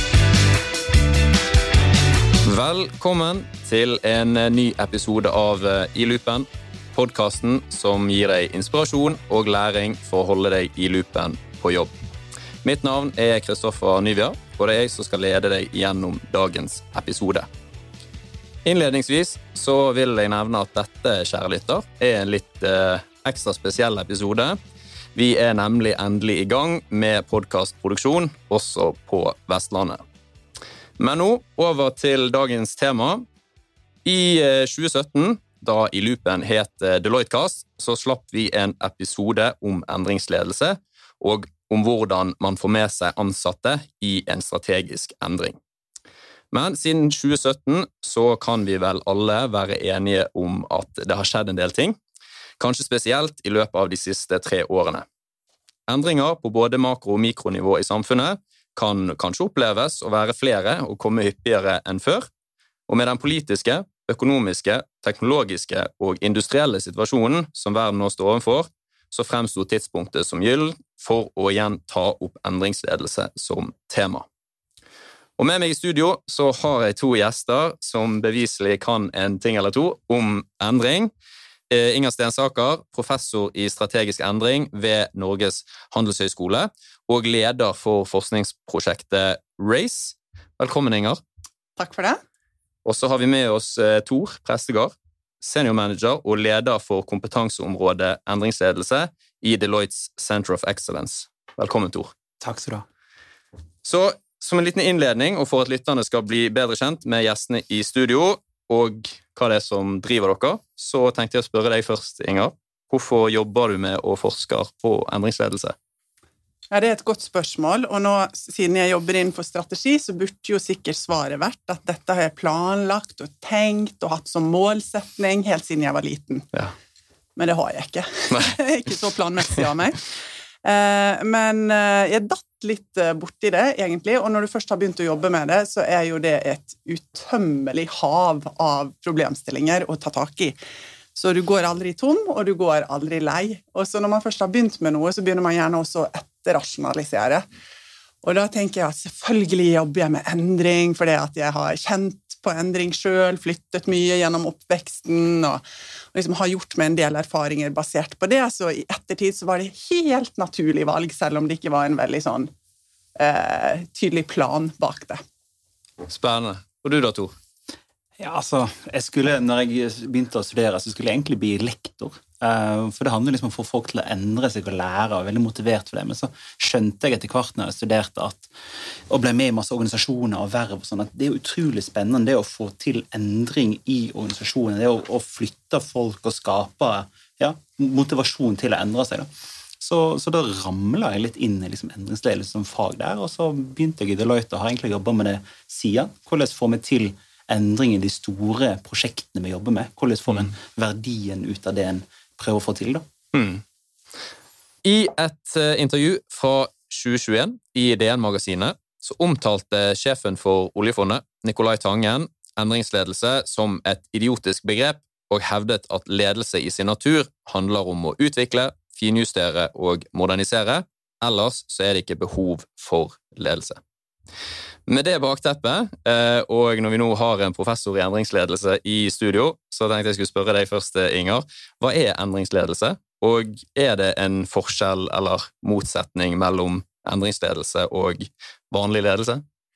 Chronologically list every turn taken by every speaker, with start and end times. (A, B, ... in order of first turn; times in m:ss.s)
0:02.4-0:11.9 A
0:12.6-0:17.5 A
0:18.6-0:24.6 A
0:25.2-0:30.0 A
0:31.0-0:33.2 A
0:34.0-0:45.6 A
0:46.5-0:52.0 A
0:52.6-0:55.1 A
0:55.9-1:02.3 A
1:02.9-1:14.3 A
1:15.4-1:21.1 A
1:21.7-1:31.2 A
1:31.8-1:32.2 B
1:32.8-1:42.1 A
1:42.4-1:42.8 C
1:43.8-1:55.8 A
1:56.7-2:06.5 B
2:07.4-2:10.1 B
2:10.6-2:20.6 B
2:21.2-2:27.4 B
2:28.2-2:35.6 B
2:36.1-2:42.5 B
2:43.2-2:45.2 B
2:46.1-2:47.4 A
2:48.2-2:58.5 C
2:59.1-3:09.3 C
3:09.8-3:23.0 C
3:23.3-3:23.6 A
3:24.8-3:43.8 A
3:44.9-3:59.4 A